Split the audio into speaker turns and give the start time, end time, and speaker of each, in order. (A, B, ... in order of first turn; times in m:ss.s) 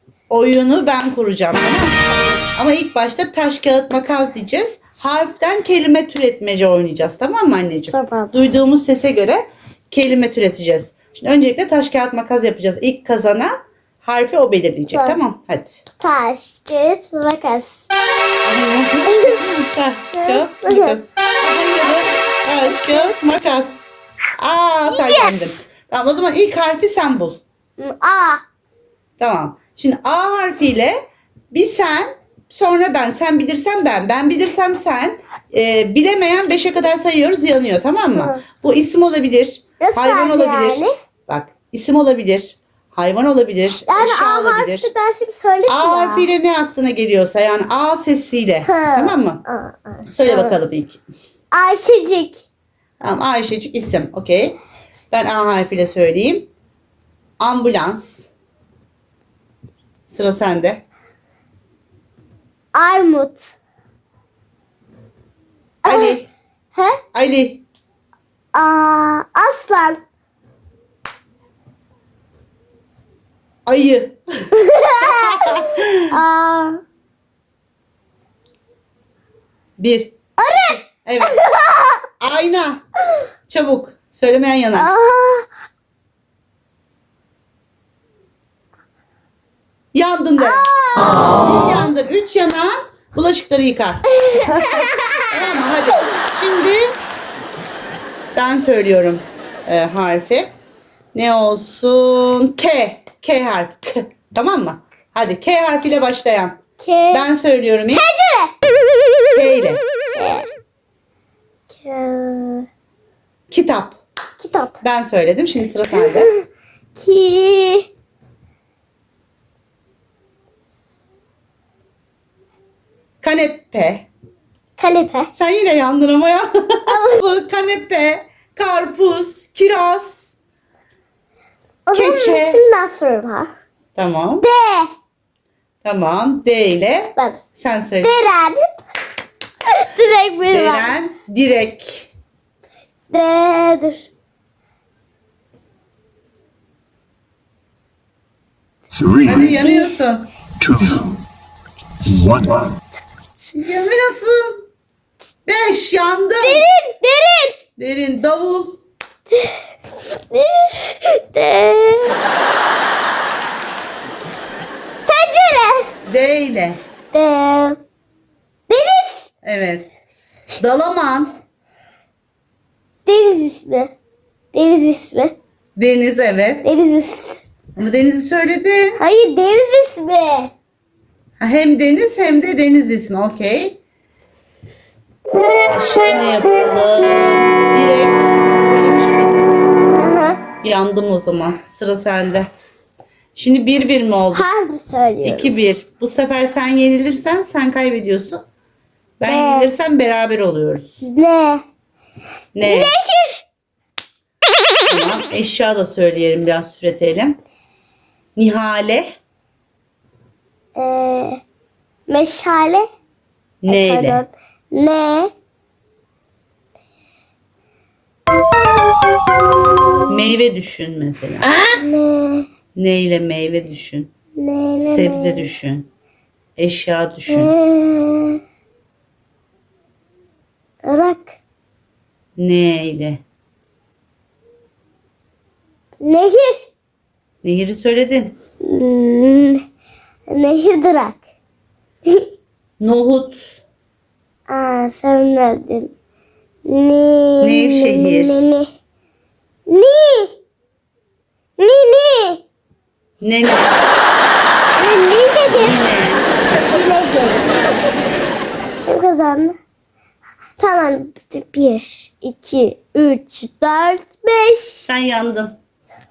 0:00.3-0:15.8 A
0:07.9-0:08.3 B
0:14.9-0:15.2 B
0:16.0-0:17.9 B
0:18.4-0:23.8 A
0:19.0-0:19.5 B
0:20.1-0:21.0 B
0:22.6-0:23.2 B
0:24.4-0:27.4 A
0:24.9-0:25.6 B
0:27.8-0:28.4 B
0:29.2-0:31.0 A
0:31.5-0:44.9 A
0:38.1-0:38.4 B
0:39.8-0:40.9 B
0:43.8-0:46.3 B
0:45.7-0:49.4 A
0:48.6-0:50.6 B
0:50.1-0:51.0 A
0:51.5-0:52.4 B
0:53.0-0:54.6 A
0:55.1-0:56.5 A
0:57.4-0:58.3 A
1:00.1-1:00.8 A
1:02.7-1:03.5 B
1:05.8-1:06.2 B
1:05.8-1:06.3 A
1:06.7-1:07.0 B
1:07.1-1:07.6 A
1:08.5-1:10.0 B
1:13.6-1:14.5 A
1:14.5-1:16.8 B
1:15.0-1:16.1 A
1:19.8-1:20.1 A
1:20.4-1:22.0 B
1:21.0-1:21.4 A
1:22.2-1:22.8 A
1:23.5-1:24.9 A
1:24.7-1:25.5 B
1:29.9-1:36.8 A
1:30.4-1:31.5 B
1:34.1-1:35.2 B
1:38.3-1:40.5 A
1:41.1-1:46.6 A
1:46.8-1:47.2 B
1:47.1-1:48.0 A
1:47.9-1:48.5 B
1:49.3-1:49.8 A
1:50.1-1:50.5 B
1:51.7-1:52.7 B
1:53.5-1:54.0 A
1:54.4-1:54.8 B
1:54.8-1:56.3 A
1:55.9-1:56.4 B
1:57.0-1:57.9 B
2:03.2-2:04.1 A
2:04.8-2:05.3 B
2:05.3-2:10.3 A
2:06.9-2:07.2 B
2:11.9-2:13.5 B
2:11.9-2:12.6 A
2:13.9-2:14.5 A
2:14.4-2:14.9 B
2:15.8-2:18.1 A
2:17.2-2:17.4 B
2:18.0-2:18.6 B
2:19.7-2:20.9 B
2:20.5-2:22.1 A
2:23.1-2:24.0 B
2:29.2-2:30.3 A
2:29.2-2:30.0 B
2:33.5-2:34.6 A
2:35.4-2:36.6 A
2:36.4-2:37.6 B
2:37.8-2:38.8 A
2:39.3-2:42.2 B
2:45.1-2:45.9 B
2:46.0-2:46.8 A
2:47.1-2:47.8 B
2:48.7-2:49.3 B
2:49.4-2:49.9 A
2:50.6-2:51.4 A
2:53.0-2:53.9 B
2:54.5-2:55.4 B
2:55.8-2:56.7 A
2:56.6-2:57.4 B
2:57.8-2:59.0 A
2:59.0-3:00.5 B
3:01.4-3:03.8 A
3:05.6-3:09.6 A
3:09.9-3:10.4 B
3:10.6-3:12.5 A
3:13.3-3:14.4 A
3:14.3-3:15.6 B
3:15.2-3:18.4 A
3:19.2-3:20.9 A
3:19.3-3:19.7 B
3:21.0-3:21.6 B
3:22.6-3:22.9 A
3:22.6-3:23.4 B
3:24.9-3:27.4 A
3:28.4-3:29.2 A
3:30.7-3:31.4 B
3:32.1-3:32.9 B
3:33.6-3:34.2 A
3:33.7-3:35.3 B
3:40.1-3:41.6 A
3:41.7-3:42.5 B
3:42.7-3:44.1 A
3:44.4-3:45.5 B
3:44.8-3:45.9 A
3:46.6-3:47.5 A
3:47.3-3:48.4 B
3:50.8-3:51.4 B
3:52.4-3:53.2 A
3:56.0-3:56.7 B
3:57.4-3:58.4 A
3:58.6-3:59.6 B
4:00.3-4:01.2 B
4:02.8-4:03.6 A
4:04.5-4:05.9 B
4:06.6-4:08.7 B
4:07.4-4:08.5 A
4:09.7-4:10.4 B
4:11.6-4:12.4 B
4:13.2-4:13.8 A
4:14.8-4:15.8 B
4:15.5-4:16.4 A
4:16.6-4:17.8 B
4:18.8-4:19.6 B
4:20.6-4:24.9 B
4:24.8-4:25.6 A